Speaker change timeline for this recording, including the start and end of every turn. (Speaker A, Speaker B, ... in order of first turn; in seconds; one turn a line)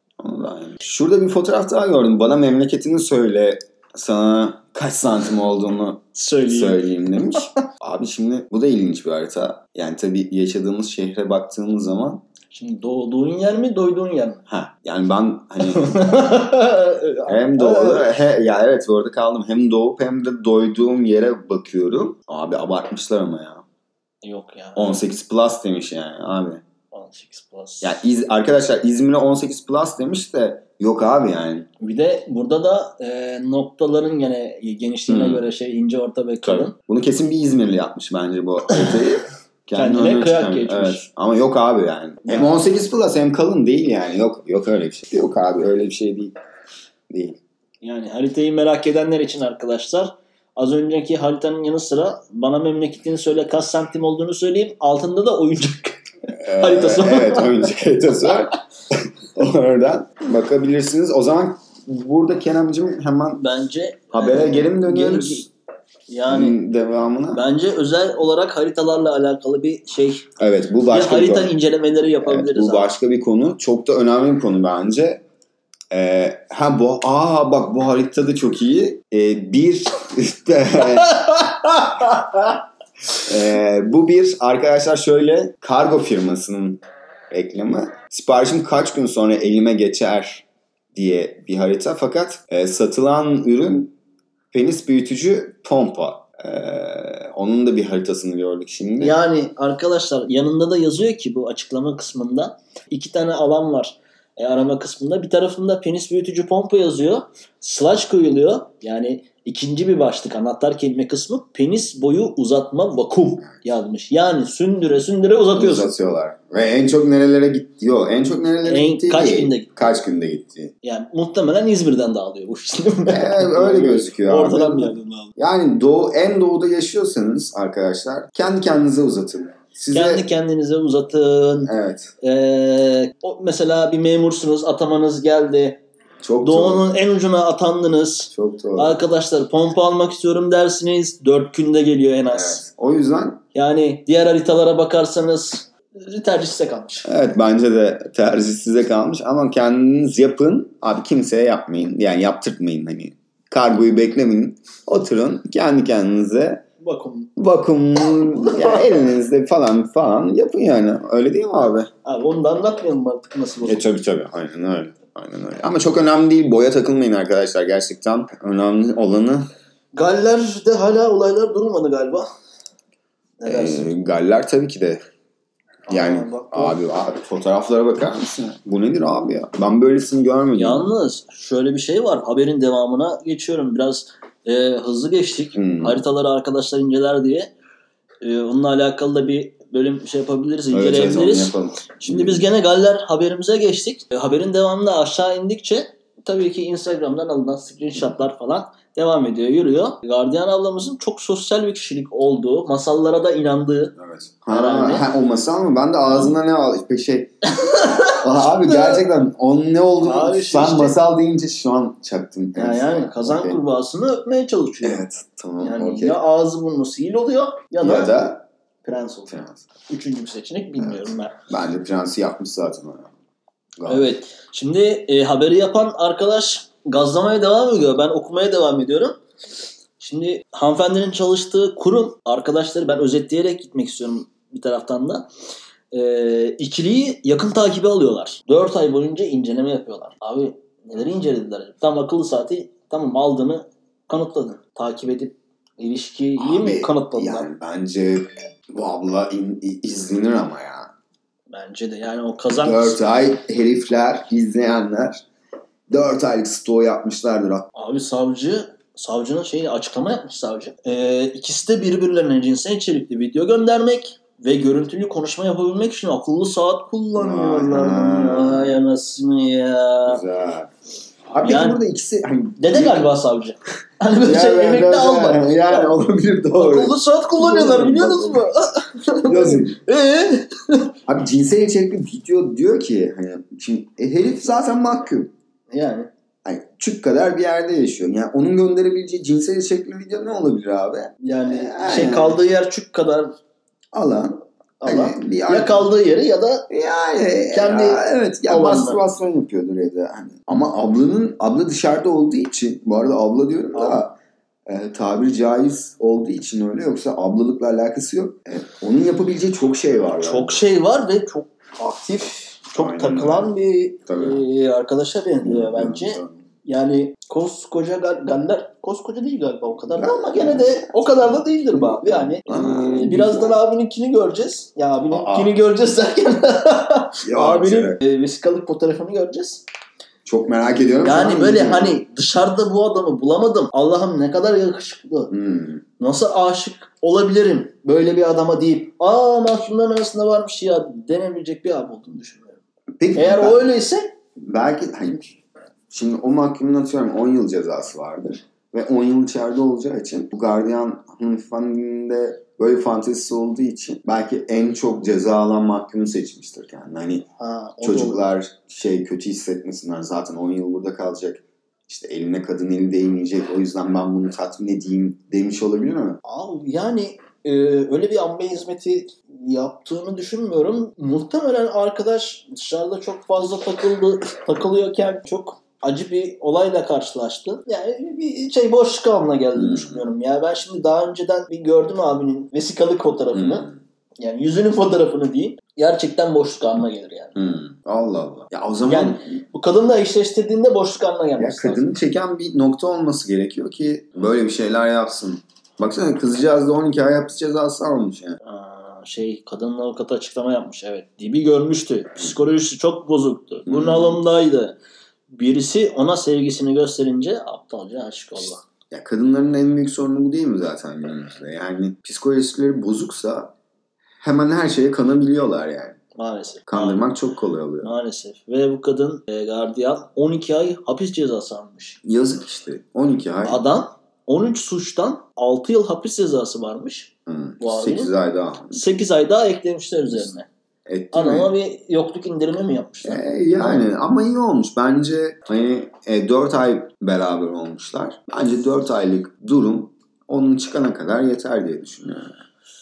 Speaker A: 0.2-12.2
Speaker B: 6.1-7.6
Speaker B: 12.5-14.4
Speaker A: 14.5-16.0
Speaker B: 15.6-18.1
Speaker A: 17.3-23.6
Speaker B: 24.2-25.0
Speaker A: 24.8-26.6
Speaker B: 26.9-27.9
Speaker A: 27.8-31.7
Speaker B: 31.8-36.7
Speaker A: 35.1-35.4
Speaker A: 36.4-46.3
Speaker B: 39.7-41.0
Speaker A: 47.1-47.4
Speaker B: 47.8-57.6
Speaker A: 56.4-63.4
Speaker B: 63.4-65.5
Speaker A: 64.1-65.5
Speaker B: 66.1-66.6
Speaker A: 66.3-67.4
Speaker B: 67.3-70.3
Speaker A: 70.4-71.5
Speaker B: 70.9-72.9
Speaker A: 72.2-75.2
Speaker A: 75.9-81.3
Speaker B: 80.8-82.3
Speaker A: 83.2-93.9
Speaker A: 94.5-99.2
Speaker B: 99.0-115.9
Speaker A: 115.5-120.7
Speaker B: 118.6-119.8
Speaker B: 120.8-125.3
Speaker A: 123.1-130.2
Speaker B: 129.9-135.8
Speaker A: 131.6-132.1
Speaker A: 136.2-136.8
Speaker B: 136.4-142.6
Speaker A: 138.3-138.9
Speaker A: 142.3-143.4
Speaker B: 143.5-147.1
Speaker A: 147.0-156.6
Speaker B: 156.8-157.3
Speaker A: 157.4-161.9
Speaker B: 158.1-159.0
Speaker B: 162.0-163.9
Speaker A: 163.6-169.5
Speaker B: 169.9-172.3
Speaker B: 173.4-173.9
Speaker A: 173.4-175.0
Speaker B: 175.9-176.8
Speaker A: 175.9-180.9
Speaker B: 180.5-187.5
Speaker A: 185.5-186.0
Speaker B: 188.2-203.9
Speaker A: 190.7-192.4
Speaker A: 203.9-213.6
Speaker B: 204.5-205.1
Speaker B: 207.5-209.0
Speaker B: 210.0-211.0
Speaker B: 212.6-215.0
Speaker A: 214.8-216.2
Speaker B: 215.6-218.3
Speaker A: 217.8-218.4
Speaker B: 218.8-219.3
Speaker A: 219.3-219.6
Speaker B: 219.9-221.4
Speaker A: 220.8-223.1
Speaker A: 223.8-224.1
Speaker B: 223.8-229.2
Speaker B: 230.0-235.3
Speaker B: 235.9-247.5
Speaker A: 246.4-250.9
Speaker B: 251.5-253.0
Speaker A: 252.6-255.2
Speaker A: 255.9-257.7
Speaker B: 257.7-270.2
Speaker A: 267.1-268.8
Speaker A: 270.1-270.7
Speaker A: 271.3-273.1
Speaker B: 271.4-271.8
Speaker B: 272.6-275.9
Speaker A: 274.2-278.4
Speaker B: 276.5-280.9
Speaker A: 279.3-279.8
Speaker A: 281.1-285.3
Speaker B: 285.7-286.1
Speaker A: 286.4-292.4
Speaker B: 291.2-293.4
Speaker A: 293.9-295.9
Speaker B: 294.8-296.7
Speaker A: 296.7-304.1
Speaker B: 297.5-299.0
Speaker B: 303.7-304.0
Speaker A: 304.6-310.6
Speaker B: 310.2-329.6
Speaker A: 312.7-313.5
Speaker A: 314.1-314.4
Speaker A: 315.4-316.4
Speaker A: 319.9-323.6
Speaker A: 325.1-325.5
Speaker A: 327.2-328.0
Speaker A: 330.2-332.0
Speaker B: 331.0-335.3
Speaker A: 335.3-335.8
Speaker B: 336.0-342.6
Speaker A: 343.0-343.7
Speaker B: 343.1-344.1
Speaker A: 344.4-345.4
Speaker A: 345.9-357.3
Speaker B: 357.4-358.2
Speaker A: 357.8-366.2
Speaker B: 366.2-383.6
Speaker A: 379.5-380.0
Speaker A: 383.3-383.8
Speaker B: 384.2-387.4
Speaker A: 387.3-389.4
Speaker B: 388.9-391.8
Speaker A: 391.4-398.4
Speaker B: 398.4-404.8
Speaker A: 403.6-404.2
Speaker B: 405.3-408.6
Speaker A: 408.9-413.5
Speaker A: 414.2-416.0
Speaker B: 416.1-417.1
Speaker A: 416.7-417.9
Speaker B: 417.8-422.0
Speaker A: 422.0-423.6
Speaker B: 423.4-428.1
Speaker A: 427.3-428.8
Speaker B: 428.7-430.5
Speaker A: 430.9-431.5
Speaker B: 431.1-433.8
Speaker A: 433.0-442.3